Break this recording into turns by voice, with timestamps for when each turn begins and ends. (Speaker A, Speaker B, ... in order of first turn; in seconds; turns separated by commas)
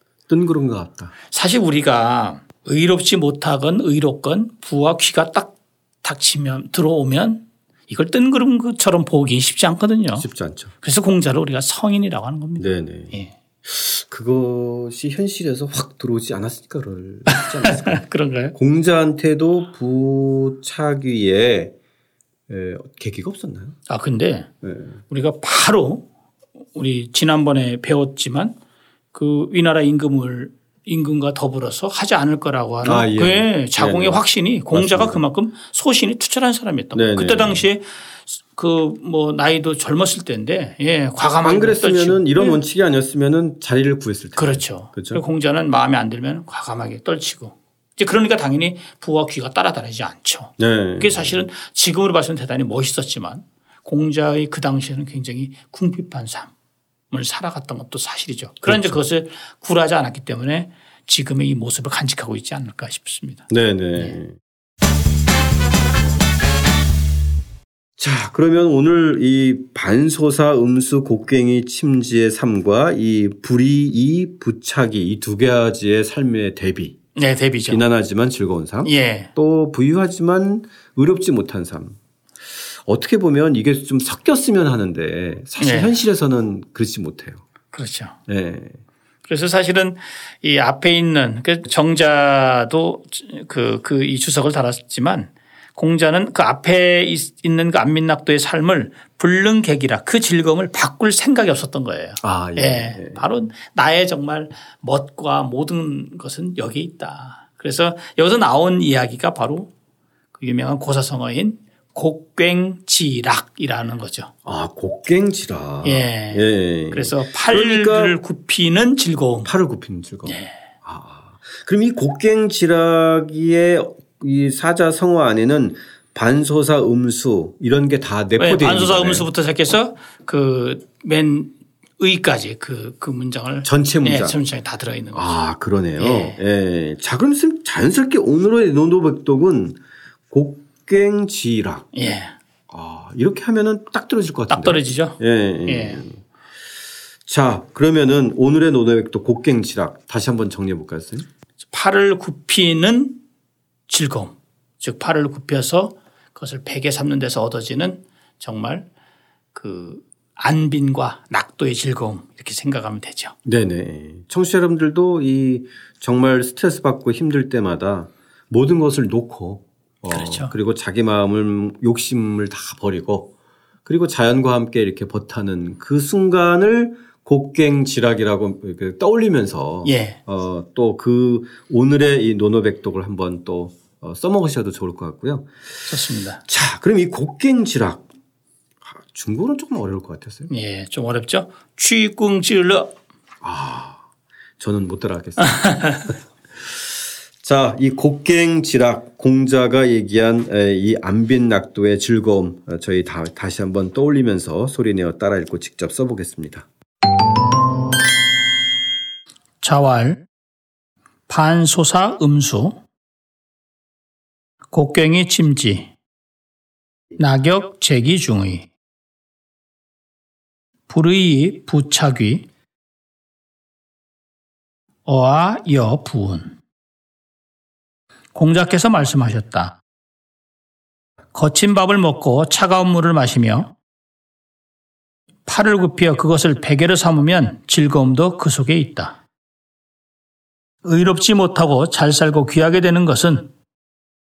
Speaker A: 0.3-1.1, Speaker B: 1.3-10.3, Speaker A: 10.2-10.7, Speaker B: 10.8-13.3, Speaker A: 12.6-18.0, Speaker B: 17.3-18.6, Speaker A: 18.5-21.8, Speaker A: 22.5-23.8, Speaker B: 23.9-24.5, Speaker A: 24.6-24.9, Speaker B: 25.1-26.1, Speaker B: 26.8-28.6, Speaker B: 29.1-42.6, Speaker A: 32.8-34.2, Speaker A: 34.7-35.2, Speaker A: 37.0-37.6, Speaker A: 41.4-45.2, Speaker B: 44.4-56.5, Speaker A: 50.6-51.4, Speaker B: 57.1-64.2, Speaker A: 58.6-59.0, Speaker A: 63.5-64.3, Speaker A: 68.0-77.0, Speaker B: 77.2-77.8, Speaker A: 77.7-82.0, Speaker B: 78.8-79.3, Speaker A: 82.9-87.4, Speaker B: 85.6-86.0, Speaker B: 87.7-88.2, Speaker A: 88.3-88.8, Speaker B: 89.3-109.7, Speaker A: 102.2-103.2, Speaker B: 110.3-114.3, Speaker A: 114.5-118.2, Speaker B: 115.8-119.5, Speaker A: 119.4-129.3, Speaker B: 120.3-120.5, Speaker B: 128.4-135.4, Speaker A: 133.6-134.4, Speaker A: 135.1-139.8, Speaker B: 136.0-136.4, Speaker A: 140.3-141.9, Speaker B: 141.9-142.3, Speaker A: 142.7-146.2, Speaker B: 144.5-146.0, Speaker A: 147.3-151.2, Speaker B: 151.7-153.2, Speaker B: 153.9-158.9, Speaker B: 159.5-163.3, Speaker A: 163.4-173.3, Speaker B: 170.1-170.5, Speaker A: 173.8-185.8, Speaker B: 179.8-180.2, Speaker B: 185.9-186.4, Speaker A: 186.4-188.1, Speaker A: 188.8-190.5, Speaker B: 190.5-192.9, Speaker A: 193.4-194.0, Speaker A: 194.6-196.1, Speaker B: 195.4-196.1, Speaker A: 197.4-206.7, Speaker B: 209.6-210.3, Speaker B: 211.3-212.8, Speaker B: 214.7-215.9, Speaker B: 217.2-218.7, Speaker B: 220.9-222.5, Speaker B: 225.1-226.6, Speaker B: 228.3-229.8, Speaker B: 231.3-233.7, Speaker B: 235.5-239.2, Speaker B: 240.8-243.5